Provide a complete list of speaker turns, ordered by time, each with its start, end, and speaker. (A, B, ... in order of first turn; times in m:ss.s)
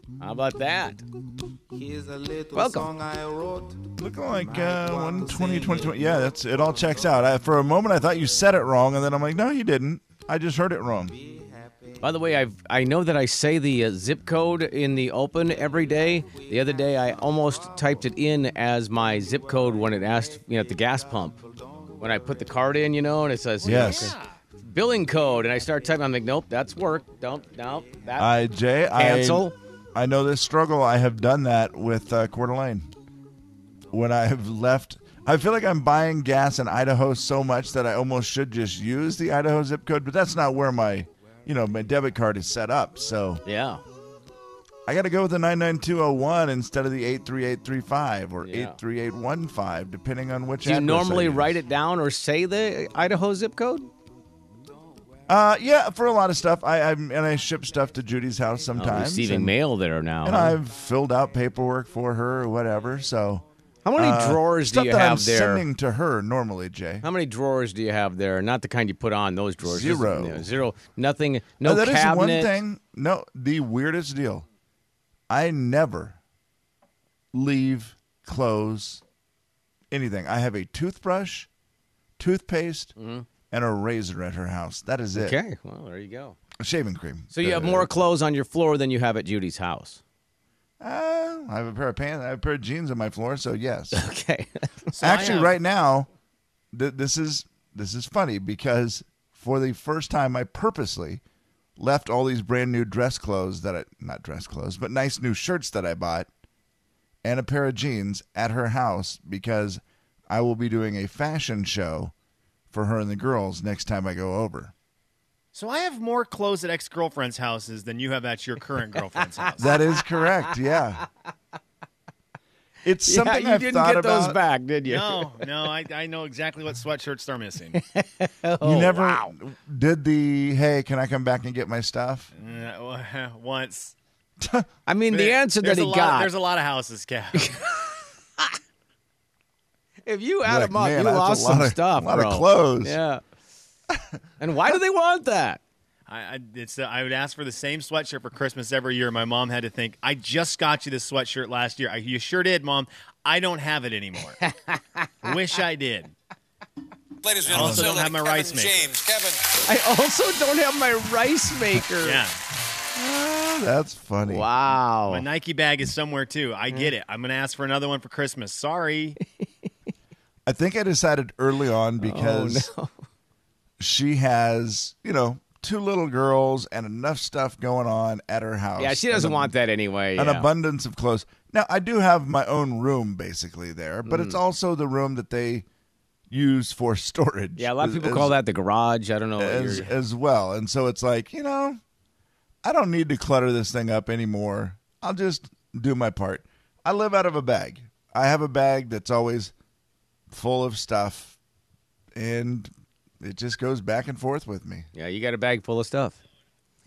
0:00.2-0:01.0 A
0:01.7-0:06.9 B
0:02.5-0:02.9 A
0:04.0-0:11.2 C
0:11.1-0:12.0 B
0:12.0-0:21.4 A
0:16.2-0:18.1 B
0:19.6-0:20.5 B
0:21.2-0:22.7 B
0:22.0-0:24.2 A
0:23.6-0:24.4 D
0:23.6-0:24.2 C
0:24.7-0:28.3 A
0:28.2-0:32.9 C
0:29.0-0:29.6 A
0:33.9-0:43.4 C
0:43.5-0:43.8 A
0:44.9-0:51.6 C
0:48.4-0:48.8 A
0:50.6-0:53.9 A
0:55.3-0:59.6 C
0:58.7-1:00.6 A
1:00.2-1:07.1 C
1:03.8-1:05.6 A
1:07.0-1:12.5 A
1:09.6-1:10.5 C
1:11.6-1:14.5 C
1:15.3-1:16.2 C
1:17.3-1:19.0 C
1:19.9-1:21.5 C
1:22.2-1:22.9 C
1:23.0-1:23.3 A
1:23.5-1:25.4 C
1:25.2-1:26.4 A
1:26.6-1:27.9 C
1:27.3-1:30.0 A
1:30.8-1:34.0 C
1:33.9-1:34.7 A
1:34.9-1:35.6 D
1:35.0-1:36.1 C
1:36.7-1:41.2 C
1:41.8-1:46.3 C
1:47.2-1:52.1 C
1:52.7-1:54.7 C
1:55.5-1:59.7 D
1:59.6-2:00.4 A
1:59.6-2:01.0 C
2:02.8-2:04.4 C
2:03.0-2:05.5 A
2:04.8-2:07.8 D
2:07.7-2:09.3 A
2:08.6-2:12.3 C
2:12.4-2:14.0 D
2:14.4-2:14.7 C
2:14.9-2:16.3 A
2:15.1-2:17.7 D
2:20.1-2:23.2 A
2:20.4-2:23.0 C
2:24.4-2:25.6 A
2:26.1-2:34.4 D
2:34.4-2:35.3 A
2:35.2-2:36.1 D
2:37.2-2:39.4 E
2:37.5-2:39.0 D
2:37.5-2:37.9 C
2:39.6-2:42.2 A
2:42.0-2:42.4 D
2:42.9-2:44.5 C
2:44.2-2:45.3 A
2:45.1-2:49.2 D
2:50.5-2:52.7 C
2:52.0-2:52.9 A
2:53.8-2:59.6 C
2:58.8-3:00.5 A
3:00.2-3:05.7 C
3:04.1-3:04.4 A
3:06.3-3:08.4 C
3:07.6-3:09.9 A
3:09.4-3:11.8 C
3:12.6-3:19.5 C
3:20.3-3:21.4 C
3:22.2-3:22.7 C
3:23.2-3:24.9 C
3:25.0-3:26.2 A